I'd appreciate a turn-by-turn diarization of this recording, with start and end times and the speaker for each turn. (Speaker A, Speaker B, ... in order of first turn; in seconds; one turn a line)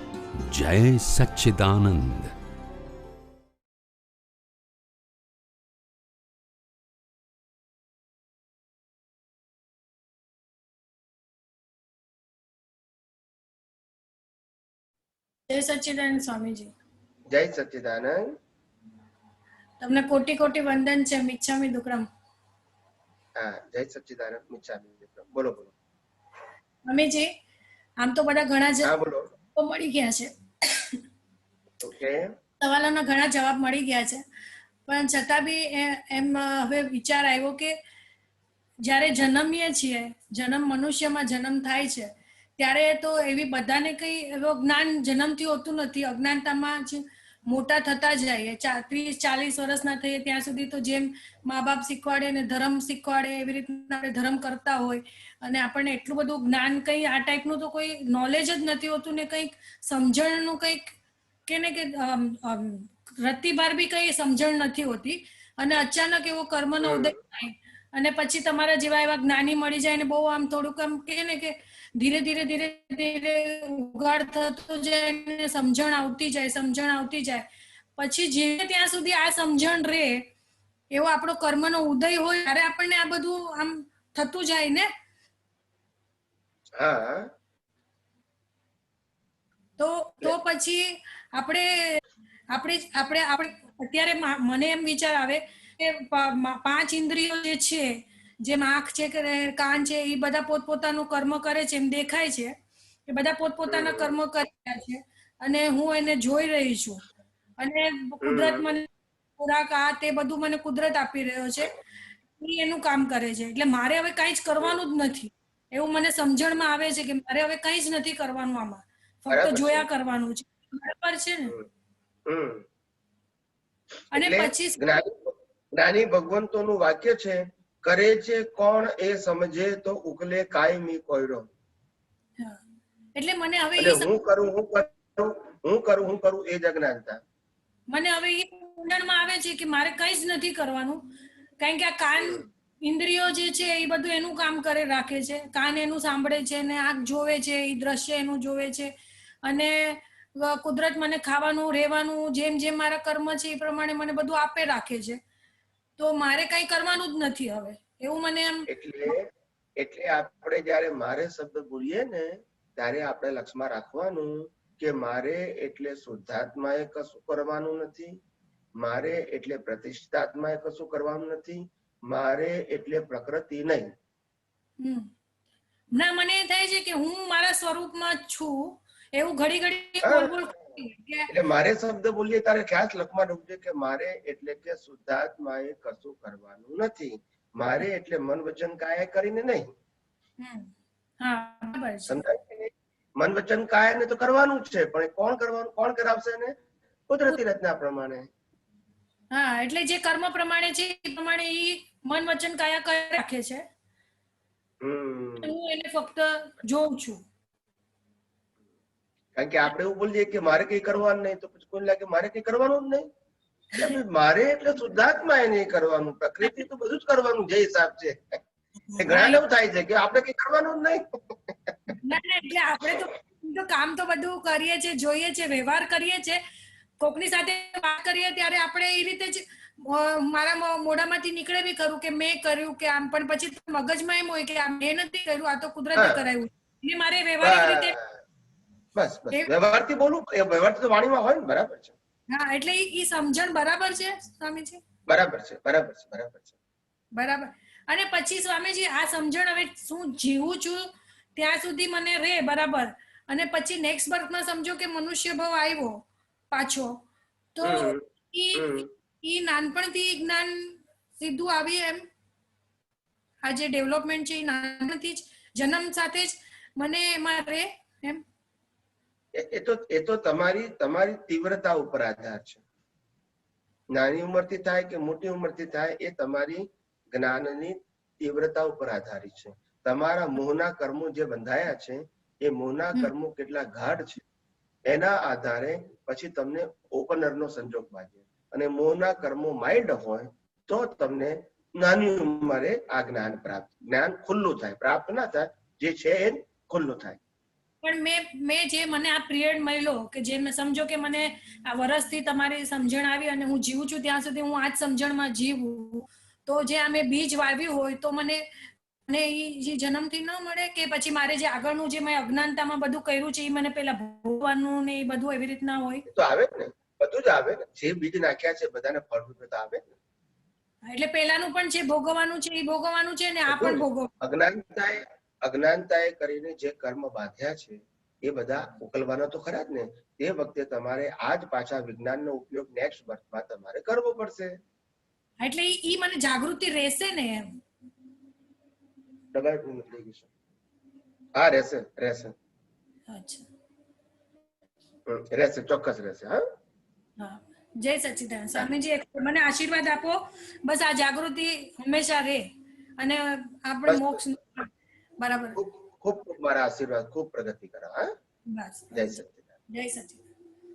Speaker A: 0.4-2.3
Speaker B: 15.5-16.7
Speaker C: 17.3-18.2
Speaker B: 19.8-22.1
Speaker C: 23.4-25.7
Speaker B: 26.9-27.3
Speaker B: 28.0-28.9
Speaker C: 28.8-29.2
Speaker B: 29.5-31.0
Speaker C: 31.8-32.3
Speaker B: 32.6-34.2
Speaker B: 34.9-37.7
Speaker B: 38.8-60.9
Speaker B: 61.5-77.5
Speaker C: 66.8-67.2
Speaker B: 78.0-80.2
Speaker B: 80.9-84.9
Speaker C: 86.8-87.3
Speaker B: 89.8-92.0
Speaker B: 92.5-102.5
Speaker B: 103.1-107.0
Speaker C: 103.7-104.1
Speaker B: 107.6-111.7
Speaker C: 108.2-108.8
Speaker B: 112.4-121.5
Speaker C: 119.3-119.9
Speaker C: 122.3-122.6
Speaker C: 124.1-131.5
Speaker B: 124.1-124.8
Speaker B: 133.2-134.1
Speaker C: 133.8-137.2
Speaker B: 137.9-141.1
Speaker B: 141.6-148.9
Speaker B: 149.4-155.2
Speaker B: 156.0-158.7
Speaker C: 158.7-159.3
Speaker C: 159.8-168.1
Speaker C: 168.8-173.9
Speaker B: 174.8-175.1
Speaker B: 175.9-181.3
Speaker C: 180.0-180.4
Speaker C: 181.3-189.7
Speaker B: 190.4-192.2
Speaker C: 192.1-196.5
Speaker C: 197.1-198.3
Speaker B: 199.3-203.6
Speaker C: 204.8-205.5
Speaker B: 205.4-207.2
Speaker C: 209.3-213.1
Speaker C: 213.7-218.4
Speaker B: 218.9-219.4
Speaker C: 219.0-221.9
Speaker B: 222.0-226.4
Speaker B: 227.0-237.9
Speaker C: 235.9-236.2
Speaker C: 237.4-238.0
Speaker C: 238.9-241.9
Speaker B: 242.3-244.8
Speaker C: 245.1-246.5
Speaker B: 247.2-250.8
Speaker B: 251.3-256.9
Speaker B: 257.5-262.0
Speaker C: 257.6-258.9
Speaker B: 263.4-268.2
Speaker C: 269.4-272.6
Speaker C: 273.9-284.2
Speaker C: 284.9-297.2
Speaker B: 297.8-308.4
Speaker B: 309.1-316.1
Speaker C: 316.1-319.8
Speaker B: 320.9-324.1
Speaker C: 323.5-334.5
Speaker B: 335.4-337.6
Speaker C: 339.3-340.3
Speaker C: 341.4-342.3
Speaker B: 343.1-343.4
Speaker C: 345.1-346.4
Speaker B: 347.2-352.5
Speaker B: 353.0-355.6
Speaker C: 353.9-354.2
Speaker C: 355.6-358.1
Speaker B: 358.5-360.3
Speaker C: 358.9-359.4